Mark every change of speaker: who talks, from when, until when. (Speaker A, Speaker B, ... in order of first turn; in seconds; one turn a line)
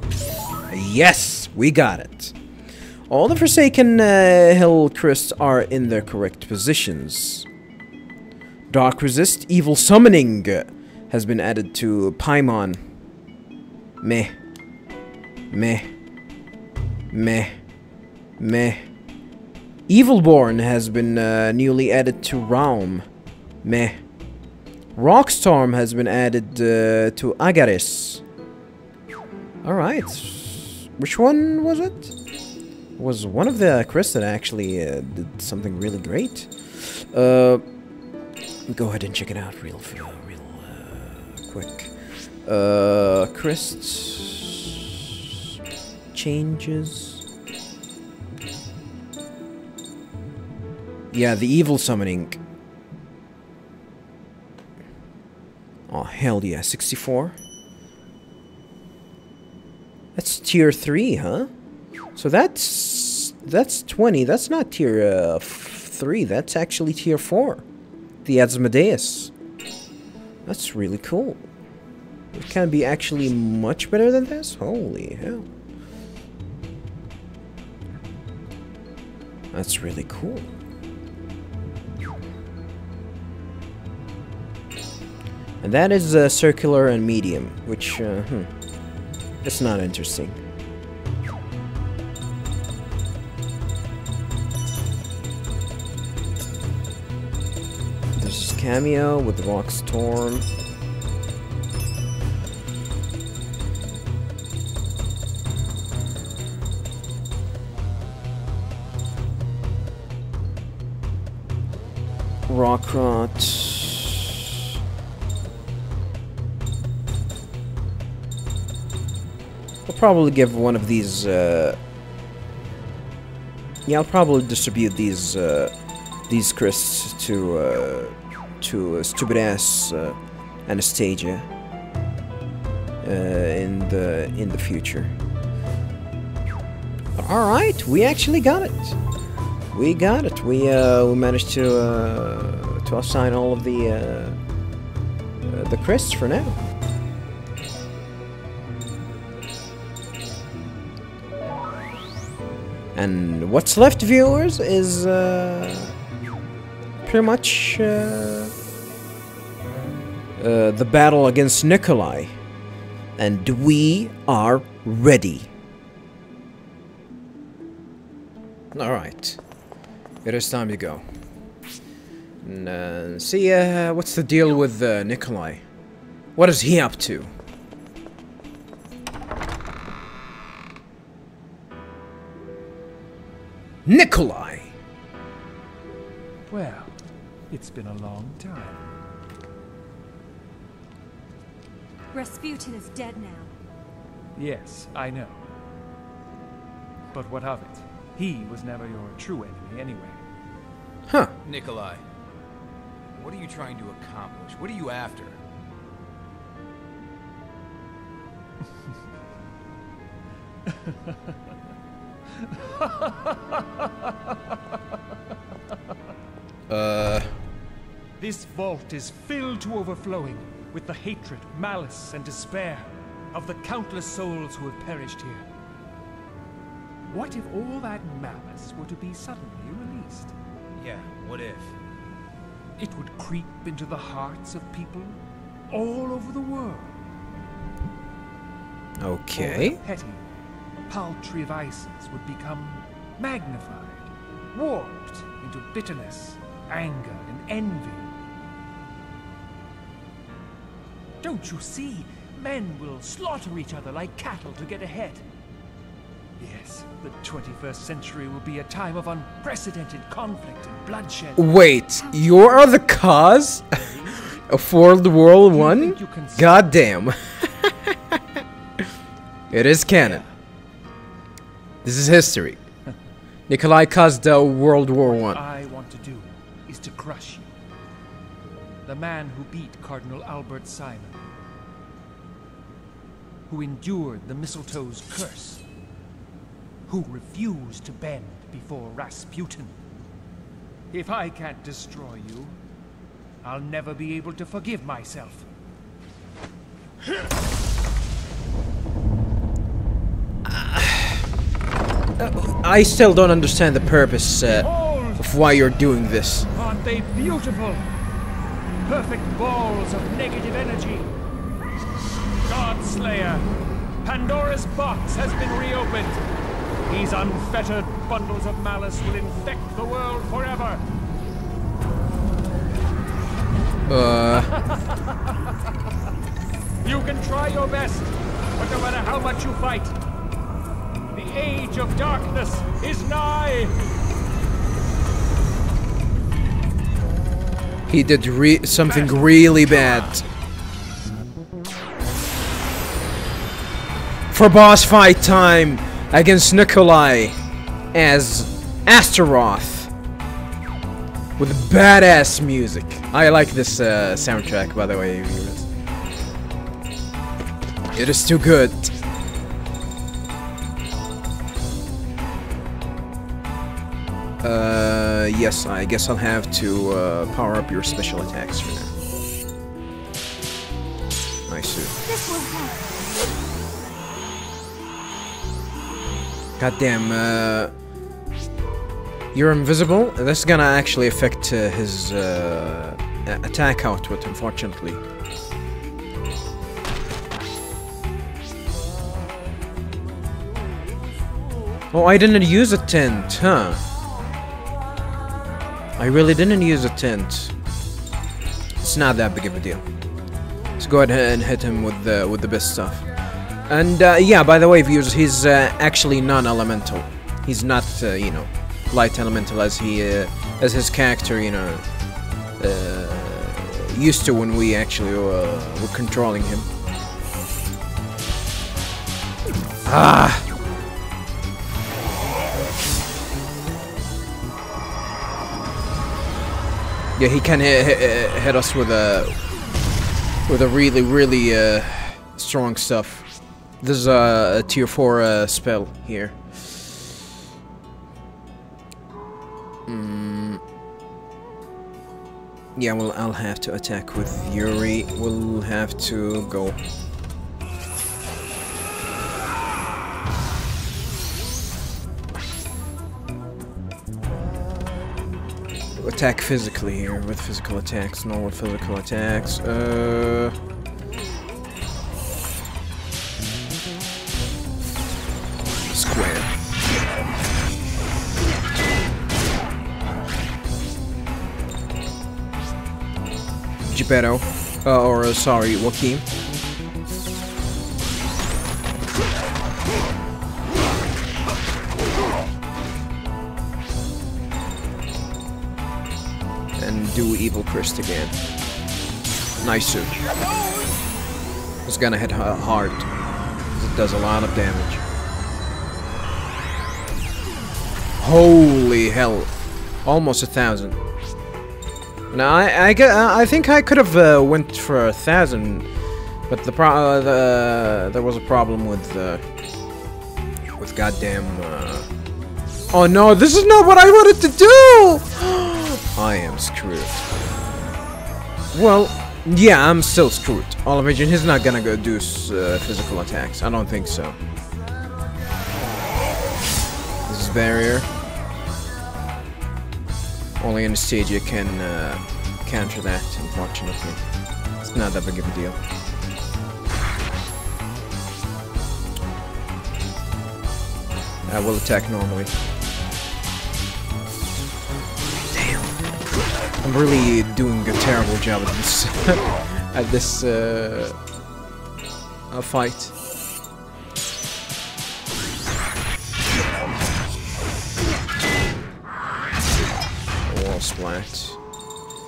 Speaker A: 0.7-2.4
Speaker A: 3.1-7.5
Speaker A: 8.7-12.8
Speaker A: 14.0-14.3
Speaker A: 15.5-15.9
Speaker A: 17.1-17.6
Speaker A: 18.4-18.9
Speaker A: 19.9-23.1
Speaker A: 23.6-24.0
Speaker A: 24.9-28.2
Speaker A: 29.6-32.1
Speaker A: 33.0-37.6
Speaker A: 38.7-45.1
Speaker A: 46.1-47.2
Speaker A: 51.1-52.4
Speaker A: 55.9-57.4
Speaker A: 60.1-61.5
Speaker A: 62.2-67.6
Speaker A: 68.2-69.3
Speaker A: 70.5-71.5
Speaker A: 72.3-75.5
Speaker A: 79.5-80.5
Speaker A: 85.6-88.5
Speaker A: 89.4-90.4
Speaker A: 98.2-100.5
Speaker A: 112.5-114.4
Speaker A: 119.9-121.8
Speaker A: 123.9-125.7
Speaker A: 126.3-131.5
Speaker A: 133.0-135.1
Speaker A: 137.2-139.0
Speaker A: 139.7-144.4
Speaker A: 145.5-146.6
Speaker A: 152.9-155.9
Speaker A: 157.1-158.5
Speaker A: 160.4-162.4
Speaker A: 163.2-165.5
Speaker A: 168.7-169.4
Speaker A: 170.2-171.0
Speaker A: 172.4-175.6
Speaker A: 176.4-177.3
Speaker A: 183.8-184.7
Speaker B: 186.5-186.9
Speaker B: 187.5-188.9
Speaker C: 192.1-193.5
Speaker B: 194.4-195.4
Speaker B: 197.1-200.2
Speaker D: 201.4-202.0
Speaker D: 203.2-205.4
Speaker B: 212.6-213.9
Speaker A: 216.7-217.4
Speaker B: 218.2-225.4
Speaker B: 227.1-230.3
Speaker D: 230.8-231.8
Speaker B: 232.8-235.2
Speaker B: 235.7-237.0
Speaker A: 239.0-239.8
Speaker B: 239.3-240.2
Speaker B: 240.9-248.1
Speaker B: 251.2-255.2
Speaker B: 256.4-261.5
Speaker A: 261.4-268.2
Speaker B: 263.7-264.4
Speaker B: 265.5-266.6
Speaker A: 269.5-270.2
Speaker A: 271.8-272.6
Speaker A: 273.5-275.4
Speaker B: 275.1-277.5
Speaker B: 278.9-281.2
Speaker B: 283.5-285.6
Speaker B: 286.9-289.7
Speaker B: 290.9-292.6
Speaker B: 293.4-295.5
Speaker A: 300.4-301.3
Speaker A: 302.2-306.5
Speaker B: 304.5-305.2
Speaker B: 306.5-307.9
Speaker B: 308.9-311.1
Speaker B: 312.5-313.4
Speaker B: 314.0-316.2
Speaker B: 316.9-320.8
Speaker A: 323.9-324.5
Speaker B: 324.5-325.3
Speaker B: 326.8-330.0
Speaker B: 331.1-333.8
Speaker A: 337.9-340.2
Speaker B: 338.9-340.2
Speaker A: 344.3-347.4
Speaker A: 347.9-349.9
Speaker A: 351.4-355.7
Speaker A: 357.9-359.0
Speaker A: 364.4-368.9
Speaker A: 371.5-372.0
Speaker C: 372.1-373.0
Speaker A: 376.6-377.7
Speaker A: 379.3-385.0
Speaker A: 391.9-393.8
Speaker A: 396.0-397.5
Speaker A: 398.8-399.8
Speaker A: 400.8-403.1
Speaker A: 403.7-411.8
Speaker A: 412.6-416.7
Speaker A: 419.9-420.5
Speaker A: 427.2-429.4
Speaker A: 430.5-433.3
Speaker A: 433.8-436.9
Speaker A: 439.9-440.6
Speaker A: 442.8-446.8
Speaker A: 456.0-460.6
Speaker A: 465.9-466.5
Speaker A: 473.9-476.2
Speaker A: 486.8-488.4
Speaker A: 489.6-490.2
Speaker A: 491.9-493.1
Speaker A: 493.8-495.0
Speaker A: 498.2-499.5
Speaker A: 500.1-501.0
Speaker A: 502.3-505.9
Speaker A: 506.5-509.4
Speaker A: 510.8-512.1
Speaker A: 512.9-517.2
Speaker A: 518.7-524.4
Speaker A: 527.3-528.1
Speaker A: 530.6-534.2
Speaker A: 534.8-535.8
Speaker A: 541.5-542.5
Speaker A: 545.5-546.0
Speaker A: 546.8-551.2
Speaker A: 552.5-553.1
Speaker A: 560.5-561.6